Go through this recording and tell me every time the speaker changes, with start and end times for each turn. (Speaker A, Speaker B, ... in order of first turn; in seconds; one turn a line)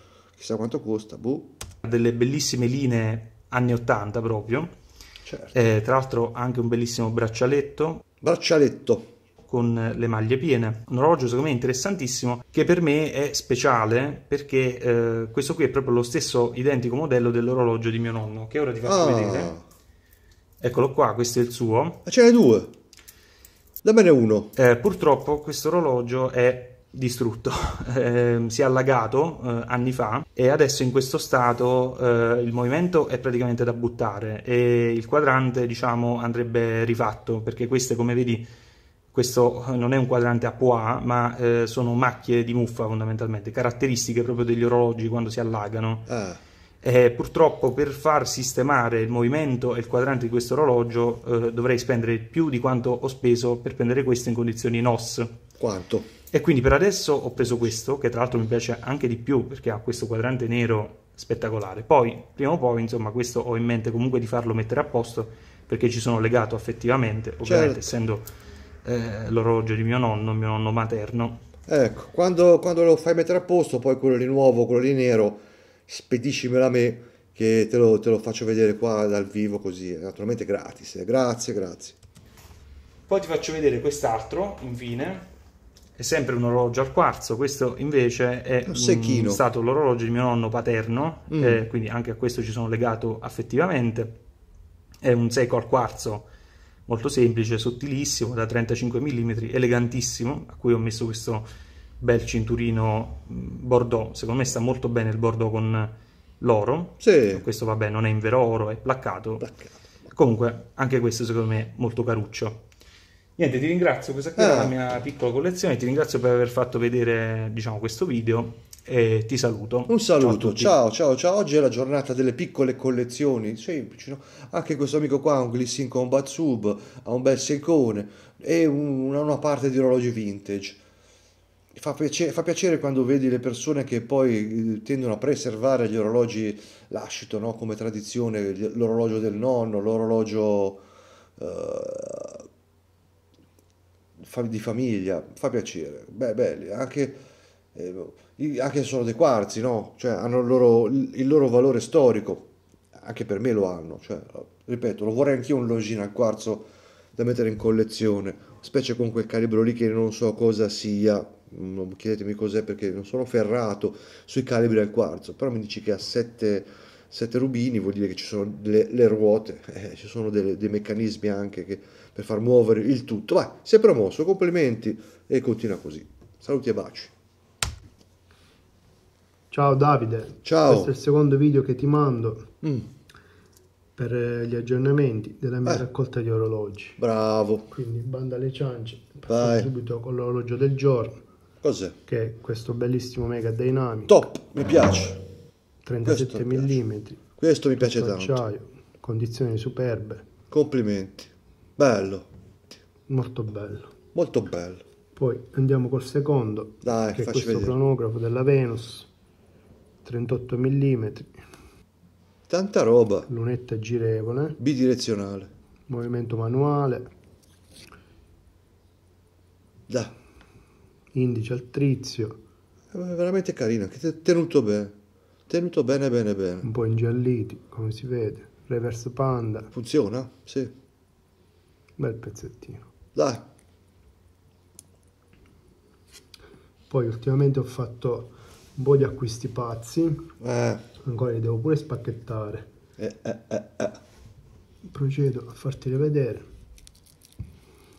Speaker A: 0.4-1.5
Speaker B: 1.8-4.7
Speaker A: 5.2-5.6
Speaker B: 5.5-8.0
Speaker A: 8.2-9.1
Speaker B: 9.4-19.6
Speaker A: 18.8-19.6
Speaker B: 20.6-22.0
Speaker A: 22.0-22.7
Speaker A: 23.8-24.5
Speaker B: 24.6-38.5
Speaker B: 39.1-46.1
Speaker A: 46.1-46.4
Speaker B: 46.8-55.4
Speaker A: 55.6-56.1
Speaker B: 56.3-68.3
Speaker A: 67.4-67.9
Speaker B: 68.8-71.4
Speaker A: 71.7-81.9
Speaker B: 83.1-85.3
Speaker B: 86.0-94.2
Speaker A: 88.7-89.4
Speaker A: 91.3-91.6
Speaker B: 95.0-96.3
Speaker B: 96.9-101.5
Speaker B: 102.0-109.5
Speaker A: 107.0-107.4
Speaker A: 109.4-109.7
Speaker B: 110.1-112.6
Speaker B: 113.4-120.7
Speaker A: 114.4-114.7
Speaker A: 119.9-130.8
Speaker A: 131.7-140.8
Speaker A: 141.4-142.4
Speaker A: 144.2-147.2
Speaker A: 147.7-177.1
Speaker C: 179.5-182.5
Speaker A: 180.4-180.9
Speaker A: 182.6-182.9
Speaker C: 183.9-187.0
Speaker A: 187.0-187.7
Speaker C: 187.7-191.2
Speaker A: 189.3-189.7
Speaker A: 191.6-192.0
Speaker C: 192.1-194.2
Speaker A: 194.1-195.2
Speaker C: 195.8-197.2
Speaker A: 196.0-196.8
Speaker A: 197.4-198.4
Speaker C: 197.8-200.3
Speaker A: 200.5-202.3
Speaker C: 203.1-203.9
Speaker A: 204.1-204.8
Speaker C: 205.2-209.1
Speaker A: 206.8-207.8
Speaker C: 210.0-211.4
Speaker A: 212.5-213.3
Speaker C: 213.3-214.6
Speaker A: 214.6-215.5
Speaker C: 215.9-217.1
Speaker C: 221.1-222.4
Speaker A: 222.9-224.9
Speaker A: 225.5-226.7
Speaker C: 226.6-229.7
Speaker A: 229.7-230.7
Speaker C: 232.0-232.9
Speaker A: 233.2-233.4
Speaker C: 236.9-240.3
Speaker A: 240.4-240.8
Speaker C: 241.0-242.7
Speaker A: 243.0-244.0
Speaker C: 244.9-246.5